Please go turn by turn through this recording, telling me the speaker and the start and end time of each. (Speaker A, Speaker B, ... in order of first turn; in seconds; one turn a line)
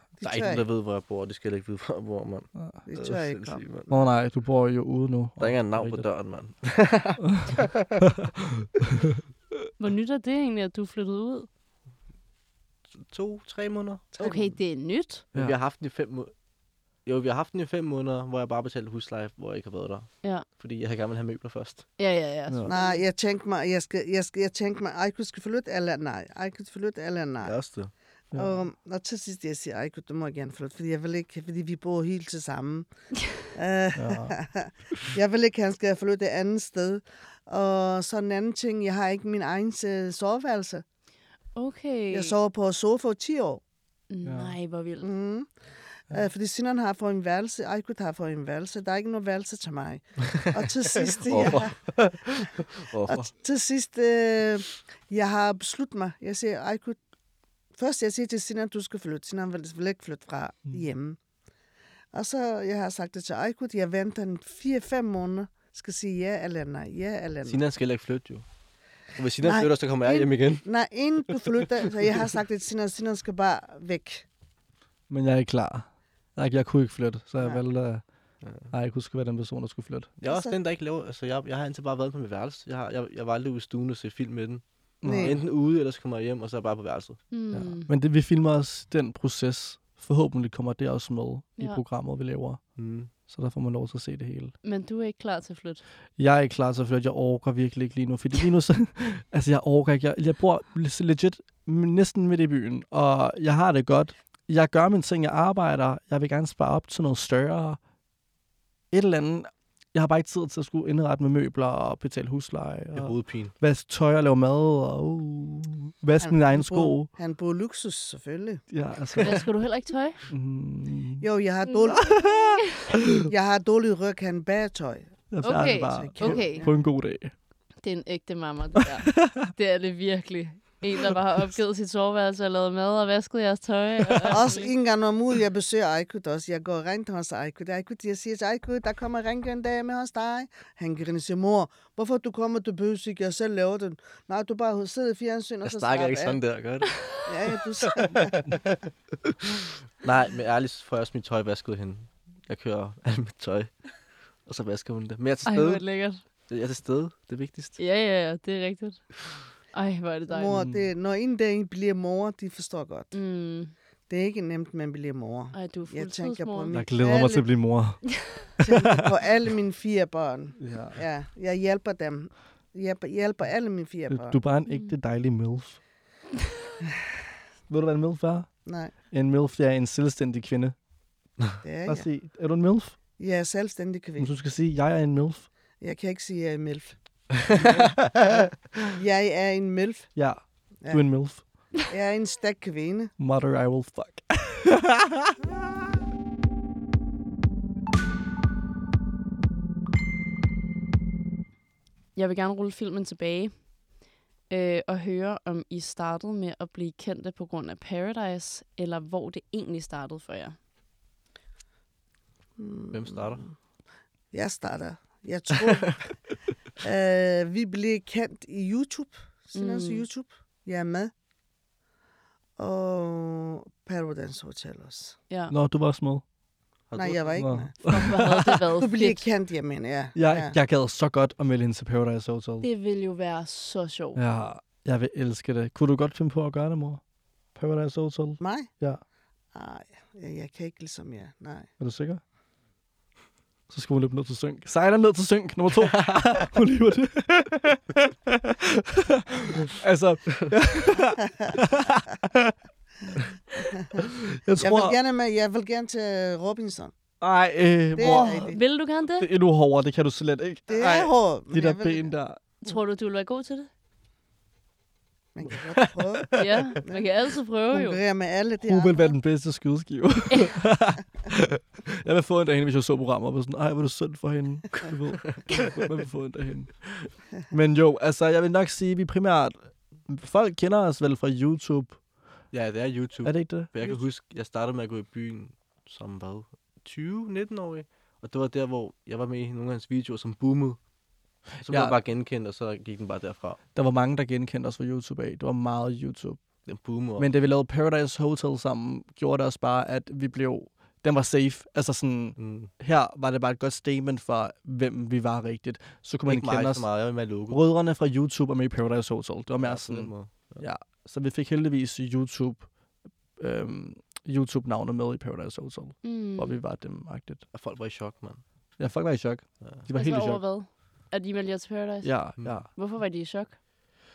Speaker A: 0.2-0.7
Speaker B: 0.2-3.9
Speaker A: 2.9-4.0
Speaker C: 3.9-6.0
Speaker B: 5.4-7.9
Speaker C: 7.2-9.2
Speaker D: 9.8-11.5
Speaker B: 12.9-14.1
Speaker D: 14.2-15.2
Speaker A: 14.2-14.6
Speaker B: 15.3-16.3
Speaker B: 17.1-21.9
Speaker D: 22.0-23.1
Speaker A: 22.7-27.6
Speaker B: 27.4-27.9
Speaker C: 28.3-28.6
Speaker A: 28.3-32.9
Speaker A: 33.5-40.8
Speaker C: 34.0-34.4
Speaker D: 41.6-42.3
Speaker A: 42.1-43.6
Speaker D: 44.1-45.1
Speaker C: 44.2-44.6
Speaker A: 45.0-45.5
Speaker A: 46.1-52.5
Speaker B: 51.3-53.3
Speaker A: 53.1-57.0
Speaker A: 57.8-61.2
Speaker A: 62.1-67.6
Speaker B: 67.5-68.5
Speaker B: 69.2-70.7
Speaker A: 69.4-74.3
Speaker C: 75.1-78.0
Speaker B: 78.4-78.7
Speaker C: 78.7-80.1
Speaker B: 80.2-87.2
Speaker A: 80.2-80.6
Speaker C: 85.0-85.4
Speaker A: 85.0-85.4
Speaker D: 87.3-87.9
Speaker C: 87.5-94.5
Speaker B: 92.8-93.1
Speaker D: 94.6-95.8
Speaker C: 96.2-107.8
Speaker C: 108.9-117.1
Speaker B: 113.0-113.5
Speaker A: 116.2-118.7
Speaker C: 118.7-119.5
Speaker D: 119.2-120.2
Speaker C: 120.3-121.3
Speaker A: 121.2-122.3
Speaker D: 121.9-122.3
Speaker C: 121.9-123.3
Speaker A: 123.2-125.1
Speaker C: 125.3-127.3
Speaker D: 125.4-126.7
Speaker A: 125.9-126.7
Speaker D: 127.8-134.7
Speaker C: 128.8-129.4
Speaker C: 134.0-134.5
Speaker A: 134.3-146.4
Speaker B: 145.6-147.0
Speaker A: 147.2-148.4
Speaker B: 147.8-148.8
Speaker B: 150.0-153.7
Speaker B: 154.5-155.8
Speaker D: 155.4-156.2
Speaker B: 156.5-157.8
Speaker D: 157.8-159.0
Speaker D: 159.7-160.6
Speaker A: 160.3-163.1
Speaker C: 160.5-160.9
Speaker D: 163.1-163.7
Speaker A: 164.1-167.5
Speaker D: 165.5-166.8
Speaker C: 166.7-169.1
Speaker A: 168.6-174.4
Speaker C: 170.6-171.0
Speaker C: 174.1-175.8
Speaker D: 174.7-175.0
Speaker C: 177.7-178.5
Speaker A: 178.7-178.9
Speaker C: 179.1-180.8
Speaker A: 181.6-182.1
Speaker C: 181.9-182.9
Speaker A: 183.2-184.4
Speaker C: 184.2-185.5
Speaker A: 185.8-187.0
Speaker A: 187.5-190.1
Speaker C: 190.2-191.4
Speaker A: 190.8-191.1
Speaker A: 191.9-193.1
Speaker C: 193.2-195.4
Speaker D: 202.2-203.7
Speaker D: 204.5-210.6
Speaker A: 212.6-213.5
Speaker B: 212.9-213.5
Speaker A: 214.3-216.2
Speaker A: 216.8-221.1
Speaker D: 219.6-220.1
Speaker A: 222.6-225.2
Speaker C: 225.5-226.2
Speaker B: 226.9-227.5
Speaker A: 226.9-228.0
Speaker C: 227.4-228.6
Speaker D: 227.8-229.2
Speaker A: 228.8-230.6
Speaker C: 230.2-232.7
Speaker D: 232.6-234.2
Speaker C: 234.2-237.0
Speaker C: 237.6-239.0
Speaker A: 238.4-238.7
Speaker A: 239.5-241.7
Speaker C: 241.8-242.2
Speaker C: 243.7-252.6
Speaker B: 245.8-246.3
Speaker A: 253.7-254.0
Speaker C: 253.9-255.0
Speaker A: 254.6-256.9
Speaker C: 257.2-258.6
Speaker A: 257.9-258.6
Speaker D: 258.0-259.3
Speaker C: 259.2-262.4
Speaker A: 260.7-262.1
Speaker D: 262.6-263.7
Speaker A: 265.4-267.1
Speaker D: 266.4-268.0
Speaker A: 267.7-269.1
Speaker C: 268.6-282.0
Speaker B: 282.5-290.8
Speaker C: 283.2-283.7
Speaker B: 291.6-293.6
Speaker C: 291.6-291.9
Speaker C: 293.8-296.4
Speaker B: 296.7-297.3
Speaker C: 297.2-312.7
Speaker B: 302.4-302.7
Speaker B: 306.3-307.6
Speaker B: 309.6-310.6
Speaker C: 313.4-317.4
Speaker D: 316.0-316.6
Speaker B: 317.5-318.4
Speaker C: 318.8-320.4
Speaker D: 319.9-323.6
Speaker C: 322.0-322.7